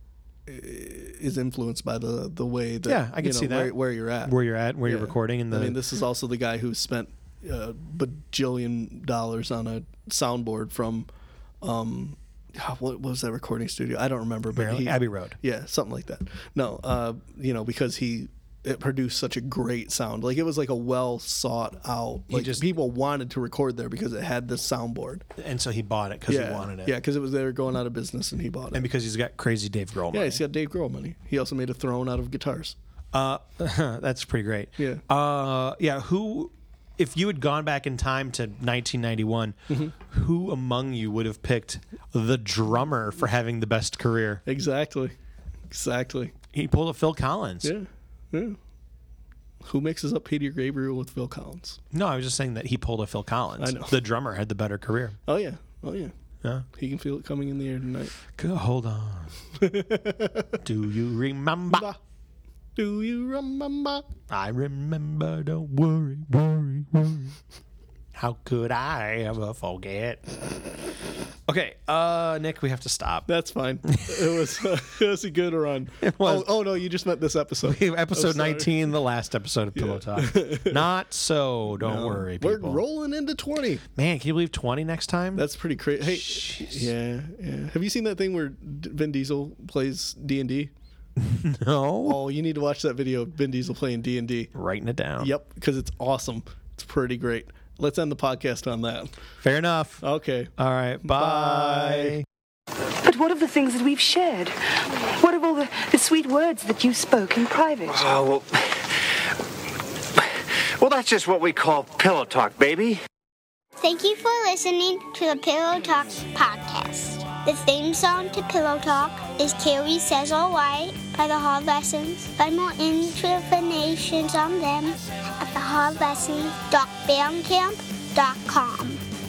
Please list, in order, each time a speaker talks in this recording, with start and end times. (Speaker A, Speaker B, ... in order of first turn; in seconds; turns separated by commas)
Speaker A: 0.5-11.1, Speaker B: 2.9-5.8, Speaker A: 11.6-25.3, Speaker B: 14.5-15.4, Speaker B: 22.3-22.6, Speaker B: 25.4-26.9, Speaker A: 26.3-28.9, Speaker B: 28.7-30.4, Speaker A: 30.1-32.8, Speaker B: 33.1-44.4, Speaker A: 34.8-35.0, Speaker A: 39.7-39.9, Speaker A: 44.5-45.1, Speaker A: 45.7-46.3, Speaker B: 46.5-47.7, Speaker A: 47.6-48.6, Speaker A: 49.6-51.8, Speaker B: 51.9-55.2, Speaker A: 53.6-54.0, Speaker A: 55.3-56.1, Speaker A: 56.7-58.2, Speaker B: 58.3-59.3, Speaker A: 59.6-60.5, Speaker B: 60.6-61.9, Speaker A: 61.7-62.0, Speaker A: 62.8-64.1, Speaker B: 64.3-67.4, Speaker B: 68.1-70.8, Speaker B: 71.5-73.3, Speaker A: 73.3-78.7, Speaker B: 73.9-74.4, Speaker B: 76.0-76.5, Speaker B: 77.6-82.8, Speaker A: 79.8-80.8, Speaker A: 81.8-83.8, Speaker B: 84.0-85.5, Speaker A: 85.3-90.7, Speaker B: 86.0-86.9, Speaker B: 91.2-92.2, Speaker A: 92.0-94.5, Speaker B: 94.5-95.3, Speaker A: 95.2-99.2, Speaker B: 99.4-100.0, Speaker A: 100.0-102.2, Speaker B: 100.6-102.2, Speaker C: 103.0-108.2, Speaker D: 107.9-108.9, Speaker D: 110.2-113.0, Speaker E: 113.8-129.0